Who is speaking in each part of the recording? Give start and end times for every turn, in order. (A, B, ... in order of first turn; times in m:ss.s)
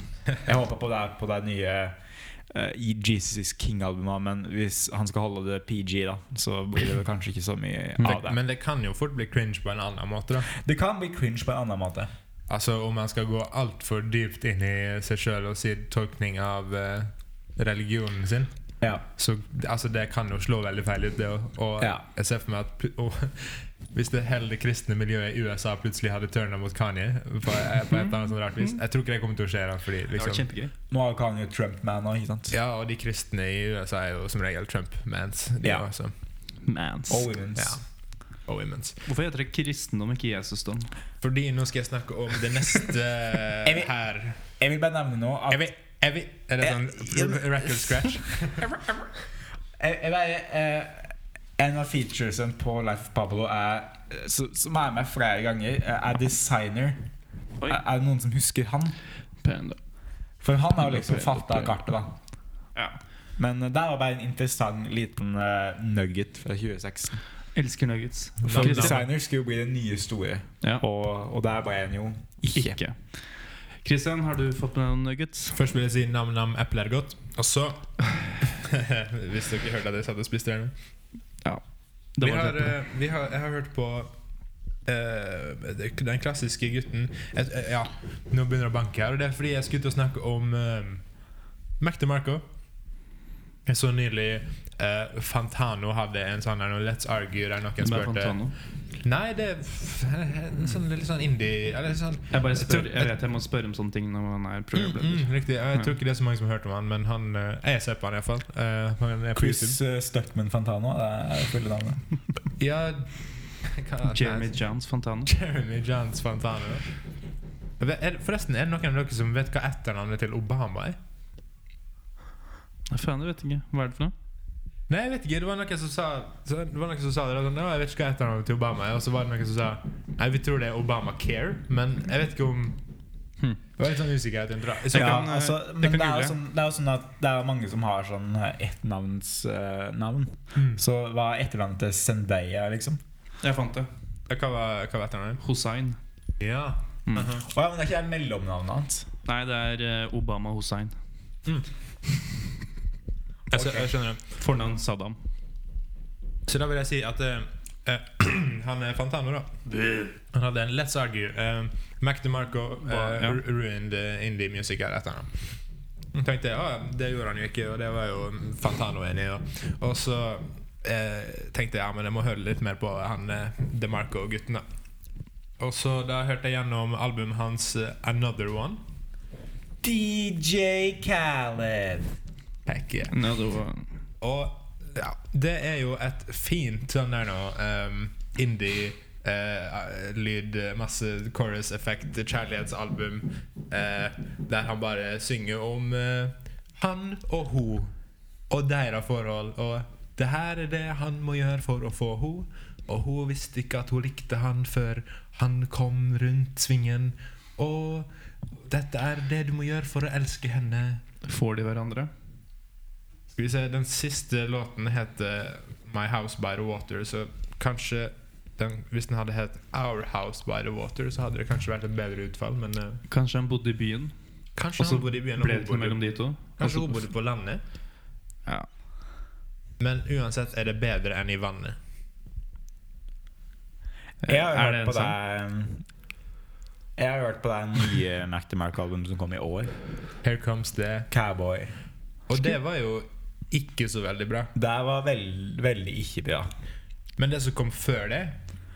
0:00.4-0:02.0 A
0:02.5-0:08.4 A
0:08.0-0:10.5 B
0:10.5-0:12.1 A
0:12.5-0:18.5 B
0:19.2-0:30.4 B
0:27.9-0:28.8 C
0:30.1-0:30.7 C
0:30.9-0:32.5 A
0:32.5-0:36.1 B
0:36.6-0:37.3 C
0:37.1-0:37.8 A
0:37.6-0:37.8 B
0:38.4-0:39.0 B
0:39.0-0:40.9 C
0:41.2-0:44.4 B
0:43.6-0:43.9 A
0:44.4-0:45.7 A
0:45.5-0:48.6 B
0:46.6-0:48.1 A
0:48.6-0:48.9 A
0:49.8-0:57.0 A
0:57.7-0:59.0 A
0:59.4-0:59.8 C
1:00.4-1:02.1 A
1:00.8-1:01.8 C
1:03.4-1:07.2 A
1:07.5-1:09.0 C
1:08.4-1:09.0 B
1:08.5-1:12.8 A
1:12.5-1:13.0 C
1:13.8-1:15.5 C
1:15.5-1:20.7 B
1:22.2-1:22.8 C
1:22.2-1:24.1 B
1:24.8-1:31.0 B
1:31.8-1:32.4 B
1:33.6-1:38.4 B
1:37.8-1:38.6 C
1:39.0-1:43.1 B
1:42.3-1:45.9 C
1:44.7-1:49.8 B
1:49.4-1:52.0 A
1:52.6-1:54.5 B
1:54.1-1:55.3 C
1:55.2-1:56.9 B
1:57.8-2:01.0 B
2:02.9-2:04.1 C
2:04.9-2:12.8 B
2:13.8-2:15.3 B
2:14.9-2:16.4 C
2:14.9-2:23.0 A
2:20.5-2:20.8 B
2:23.4-2:23.9 C
2:24.3-2:25.4 B
2:25.4-2:26.0 C
2:26.4-2:27.4 B
2:27.4-2:29.1 A
2:29.2-2:30.9 C
2:33.5-2:34.2 B
2:33.5-2:33.9 A
2:34.3-2:35.2 C
2:36.5-2:39.5 B
2:39.7-2:40.1 C
2:40.3-2:45.4 B
2:42.8-2:43.4 C
2:46.1-2:54.6 B
2:55.6-2:58.8 B
2:59.8-3:02.1 A
3:02.7-3:03.1 B
3:03.1-3:03.8 C
3:04.2-3:17.9 B
3:18.5-3:28.1 B
3:28.7-3:31.0 B
3:31.2-3:32.1 C
3:33.3-3:43.0 B
3:43.1-3:44.1 C
3:44.6-3:46.0 B
3:44.8-3:46.9 C
3:46.6-3:47.6 B
3:49.8-3:51.8 B
3:54.2-3:55.2 C
3:54.3-3:55.8 A
3:57.0-3:59.7 A
4:00.2-4:01.1 B
4:01.1-4:01.7 A
4:02.3-4:04.5 B
4:04.5-4:06.5 A
4:07.2-4:08.4 B